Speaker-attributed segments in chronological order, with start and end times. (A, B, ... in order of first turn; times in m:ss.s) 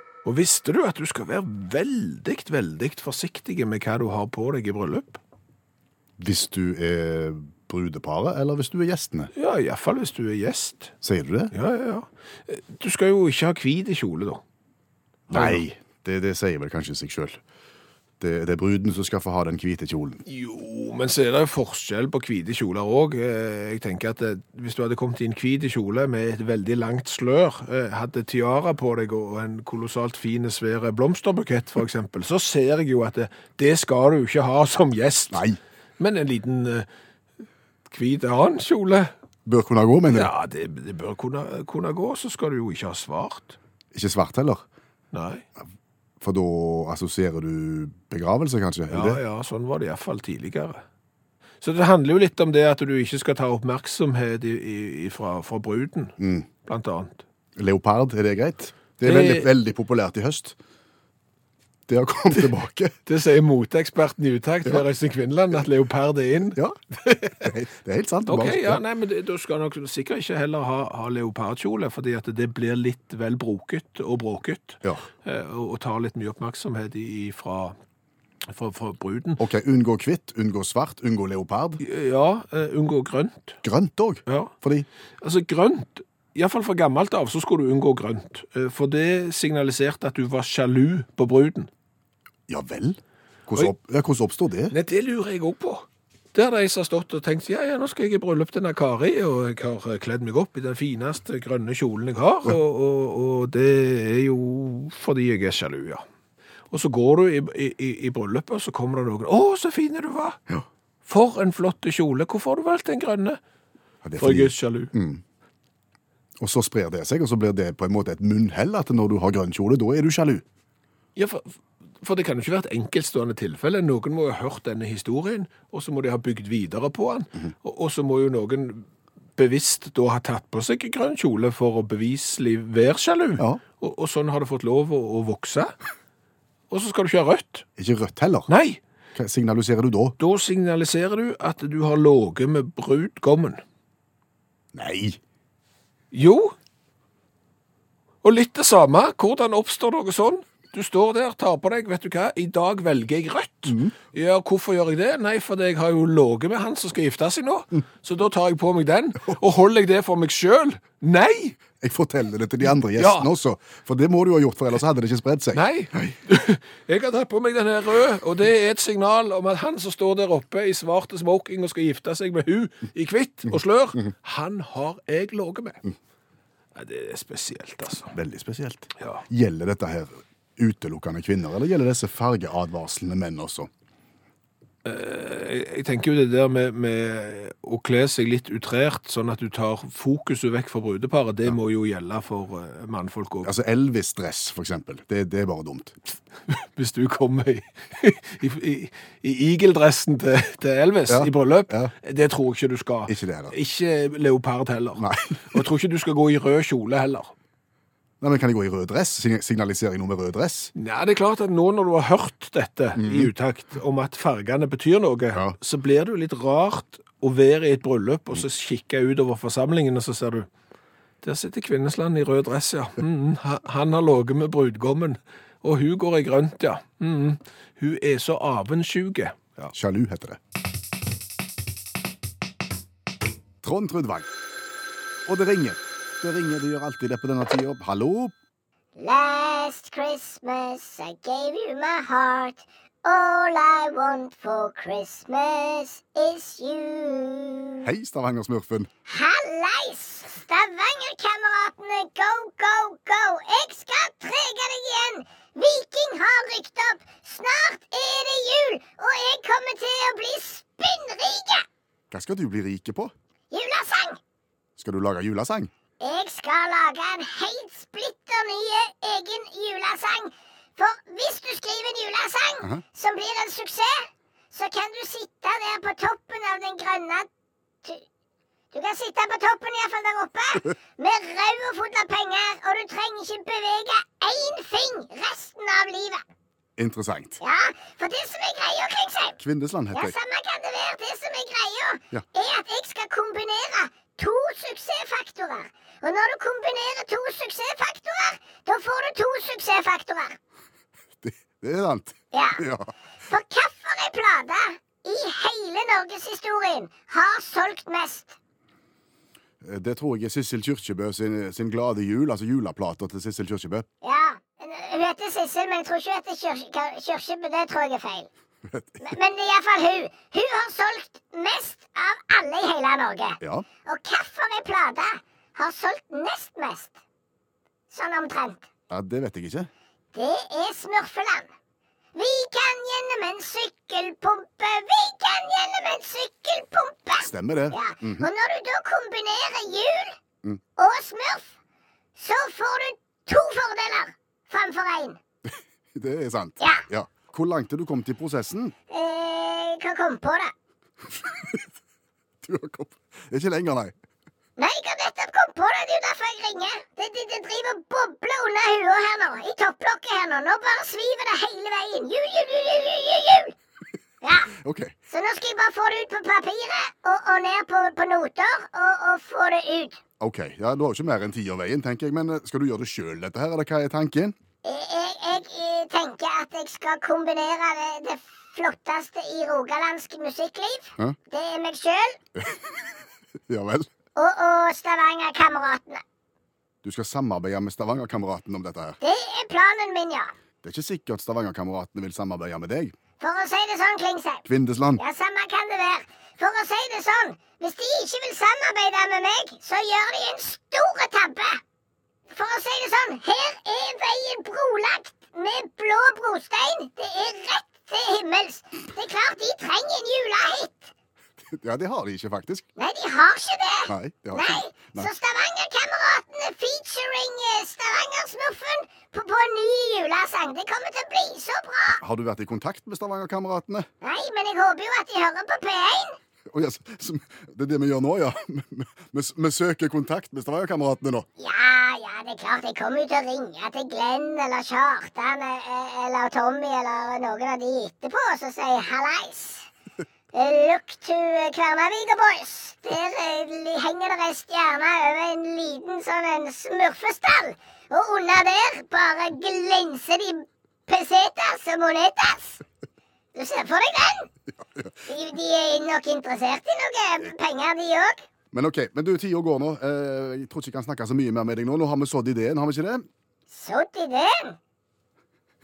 0:00.2-0:05.2 A
0:06.2-0:09.3 B
0:09.3-0:10.9 A
0:11.0-0:11.5 B
0:11.5-0:14.4 A
0:15.3-0:17.4 B
0:15.3-0:15.6 A
0:18.2-0:20.2 B
0:20.3-0:35.4 A
0:35.3-0:35.6 B
0:36.0-0:36.9 A
0:37.9-0:39.1 A
0:39.5-0:40.3 B
0:40.1-0:43.6 A
0:43.9-0:44.6 B
0:45.1-0:45.4 A
0:46.2-0:49.2 B
0:48.9-0:50.8 A
0:51.6-0:57.2 A
0:56.2-0:56.5 B
0:57.6-1:00.6 B
0:59.0-0:59.5 A
1:01.9-1:03.0 B
1:03.1-1:07.5 A
1:07.4-1:08.8 B
1:08.3-1:17.8 A
1:18.5-1:19.4 A
1:19.4-1:21.8 B
1:21.8-1:23.6 A
1:23.6-1:24.9 B
1:24.3-1:24.5 A
1:25.2-1:31.7 A
1:32.5-1:34.7 B
1:34.7-1:46.0 A
1:46.7-1:50.4 A
1:51.1-1:53.4 A
1:54.0-1:55.2 B
1:54.2-1:54.9 A
1:56.4-2:00.4 B
2:01.2-2:15.8 A
2:16.7-2:17.7 A
2:17.8-2:18.5 B
2:18.5-2:18.8 A
2:19.2-2:20.2 B
2:20.2-2:23.6 A
2:24.7-2:25.2 B
2:26.1-2:26.6 A
2:28.2-2:41.6 A
2:33.7-2:33.9 B
2:41.8-2:46.1 B
2:43.0-2:43.3 A
2:45.5-2:55.8 A
2:56.8-2:58.2 A
2:58.1-3:03.7 B
3:04.8-3:13.5 A
3:13.4-3:15.9 B
3:16.5-3:27.3 A
3:21.1-3:21.9 B
3:23.1-3:23.5 B
3:25.0-3:25.6 B
3:28.2-3:30.7 B
3:30.8-3:40.5 A
3:33.0-3:33.3 B
3:41.2-3:49.7 A
3:49.7-3:50.4 B
3:53.6-3:54.3 B
3:55.3-3:58.3 B
3:59.0-4:07.9 C
4:07.8-4:08.9 B
4:09.1-4:21.7 C
4:22.1-4:23.1 B
4:23.5-4:24.2 C
4:24.8-4:25.7 B
4:26.0-4:37.3 C
4:38.7-4:46.2 C
4:46.8-4:47.4 B
4:47.4-4:49.4 C
4:49.4-4:50.1 B
4:49.9-5:00.4 C
5:01.2-5:02.9 B
5:02.3-5:02.6 C
5:03.3-5:08.4 C
5:09.6-5:13.9 B
5:14.0-5:18.3 C
5:18.7-5:19.0 B
5:19.0-5:27.0 C
5:23.4-5:23.7 B
5:27.9-5:28.7 C
5:28.9-5:29.7 B
5:30.1-5:31.5 C
5:32.2-5:40.2 C
5:37.2-5:38.3 B
5:40.8-5:41.5 C
5:42.2-5:45.2 C
5:45.5-5:48.8 B
5:48.9-5:50.5 C
5:51.3-5:51.6 B
5:52.4-5:54.0 B
5:54.6-6:03.6 C
6:04.2-6:04.6 C
6:04.6-6:05.0 B
6:05.1-6:10.0 C
6:10.2-6:14.4 B
6:14.6-6:22.2 C
6:22.4-6:22.9 B
6:23.5-6:23.9 B
6:24.2-6:26.0 C
6:26.8-6:29.0 B
6:29.0-6:30.3 C
6:30.6-6:33.0 B
6:33.2-6:34.4 C
6:34.5-6:35.0 B
6:35.0-6:41.6 C
6:42.3-6:50.9 C
6:51.5-6:52.7 B
6:52.8-7:02.0 C
6:53.9-6:55.1 B
7:02.0-7:03.9 B
7:04.0-7:06.2 C
7:06.5-7:11.3 B
7:11.4-7:19.7 C
7:20.3-7:32.6 C
7:33.4-7:34.3 C
7:34.6-7:34.9 B
7:35.1-7:38.2 C
7:38.5-7:43.1 B
7:43.5-7:44.6 C